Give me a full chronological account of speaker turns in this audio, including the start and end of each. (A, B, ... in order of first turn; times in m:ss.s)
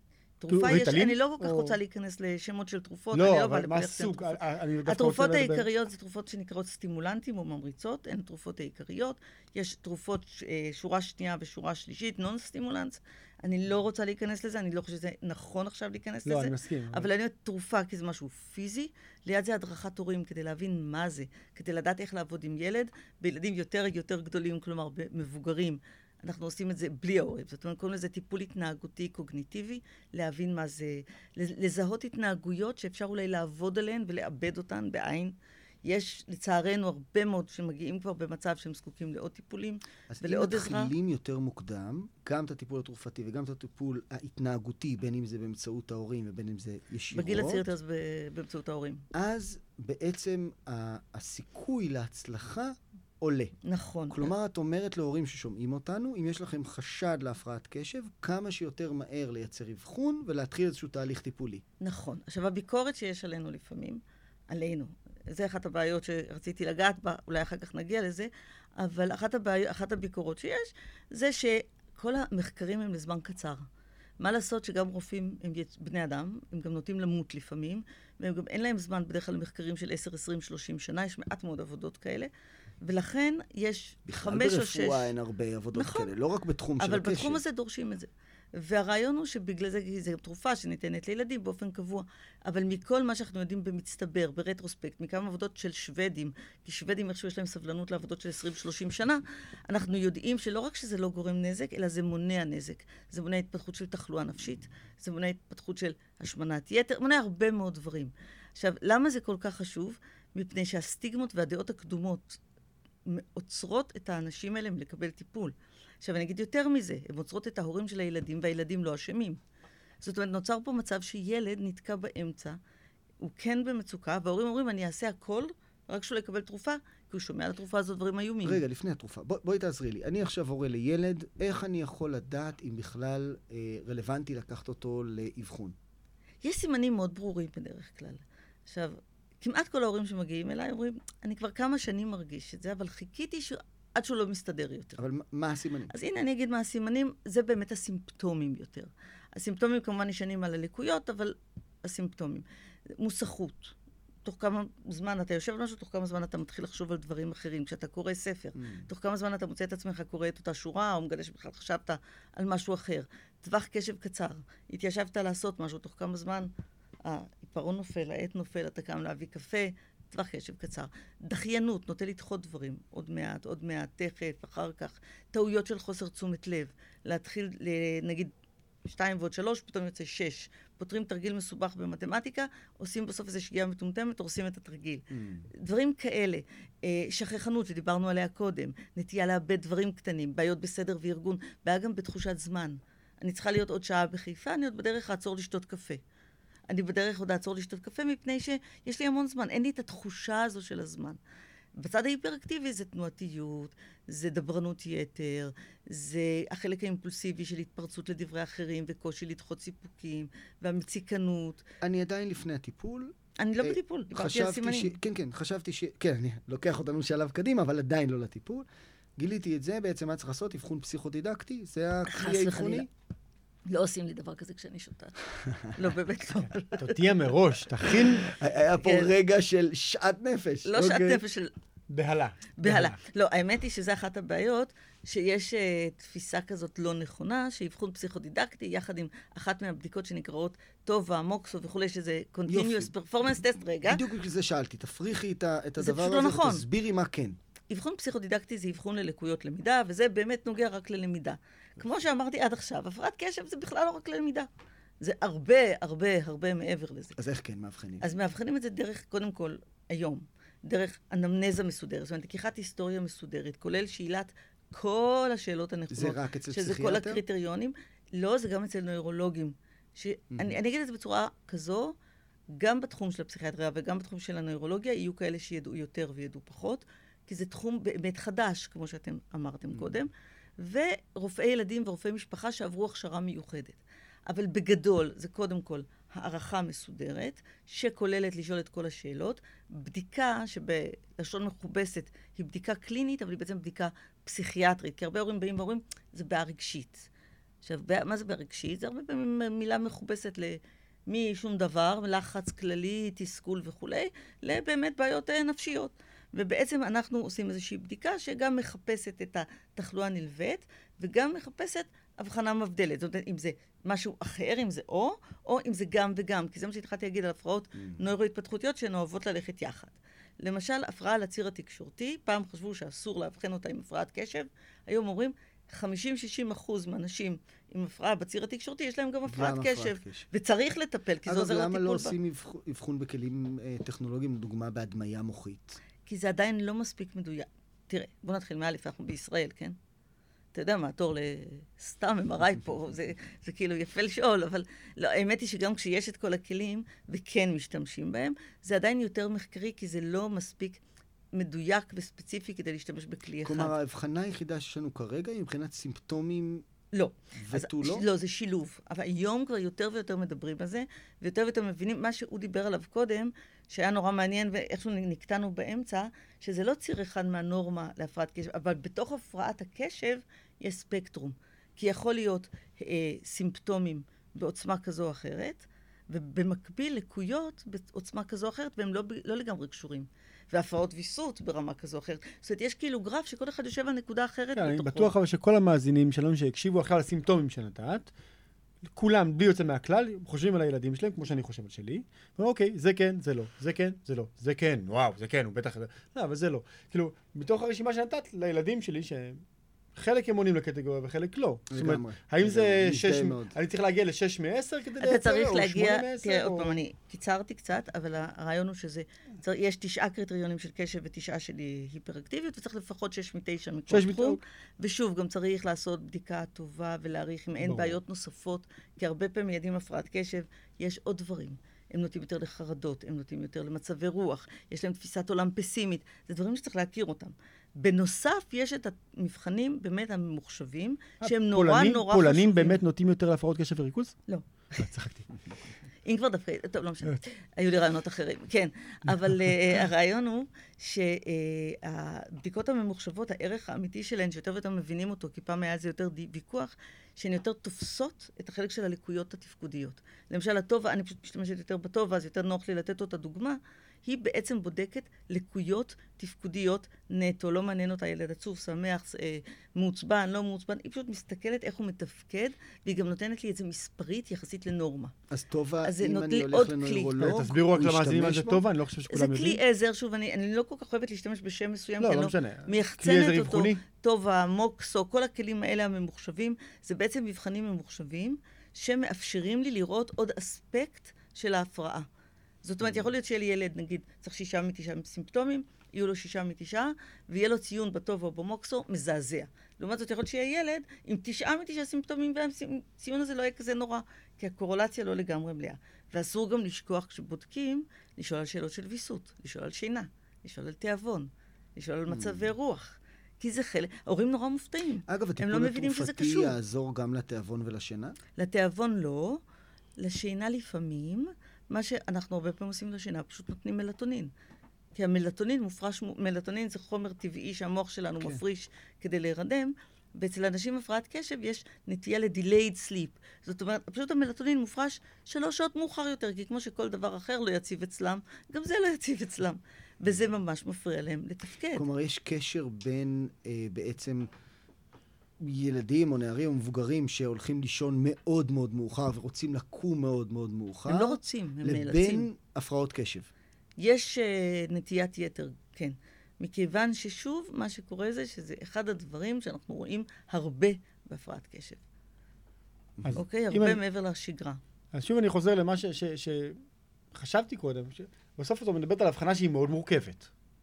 0:00.4-0:40.9 A
0:00.5-0:01.8 B
0:03.1-0:05.7 B
0:16.3-0:17.1 B
0:40.1-0:47.7 C
0:47.1-0:49.0 A
0:49.1-0:53.6 C
0:53.6-0:54.3 A
0:54.1-1:01.6 C
1:01.8-1:13.7 A
1:14.2-1:22.3 A
1:22.8-1:25.1 A
1:24.1-1:27.4 C
1:25.8-1:26.1 A
1:26.8-1:52.4 A
1:53.1-1:59.4 A
2:00.0-2:02.6 A
2:03.2-2:08.6 A
2:08.4-2:15.8 C
2:16.4-2:25.0 A
2:25.0-2:26.0 C
2:25.9-2:32.4 A
2:33.0-2:46.5 A
2:38.6-2:38.9 C
2:47.0-2:58.3 A
2:58.8-3:16.0 A
3:05.1-3:05.5 C
3:16.7-3:21.2 A
3:21.8-3:31.6 A
3:31.8-3:38.7 C
3:33.4-3:35.0 A
3:39.2-3:42.9 C
3:42.1-3:42.9 A
3:43.7-3:47.0 A
3:46.6-3:48.3 B
3:48.2-3:51.0 C
3:48.8-3:49.1 A
3:50.6-3:51.5 A
3:50.8-3:51.2 B
3:51.9-3:53.0 B
3:52.6-4:04.0 A
4:02.5-4:02.9 C
4:03.9-4:07.4 C
4:05.8-4:06.6 A
4:07.7-4:14.5 A
4:15.0-4:17.2 A
4:17.2-4:18.1 C
4:18.0-4:32.0 A
4:25.9-4:27.2 C
4:30.3-4:30.6 C
4:32.6-4:57.1 A
4:57.6-5:32.2 A
5:17.8-5:18.1 C
5:29.3-5:30.3 C
5:31.3-5:35.8 C
5:36.0-5:39.8 A
5:40.5-5:50.8 A
5:51.3-5:53.7 A
5:53.4-5:56.6 C
5:56.9-6:25.1 A
5:57.4-5:58.1 C
6:24.6-6:28.1 B
6:28.9-6:39.4 B
6:40.0-6:46.8 B
6:41.7-6:43.6 C
6:45.0-7:12.8 A
6:53.9-6:54.4 B
6:57.6-6:58.0 B
7:11.2-7:14.2 B
7:14.3-7:14.8 A
7:14.8-7:15.3 B
7:16.0-7:45.1 A
7:45.3-7:48.6 C
7:45.8-7:47.2 A
7:47.2-7:49.6 B
7:49.1-8:02.1 A
7:52.0-7:53.8 B
8:02.6-8:26.6 A
8:22.1-8:22.5 C
8:25.1-8:28.2 C
8:28.4-8:29.4 A
8:30.0-8:34.3 A
8:35.0-8:51.9 A
8:51.8-8:54.3 C
8:55.4-9:03.3 C
9:00.9-9:02.3 A
9:03.8-9:11.8 A
9:13.0-9:13.8 B
9:13.2-9:14.6 A
9:14.9-9:16.6 B
9:17.1-9:20.3 B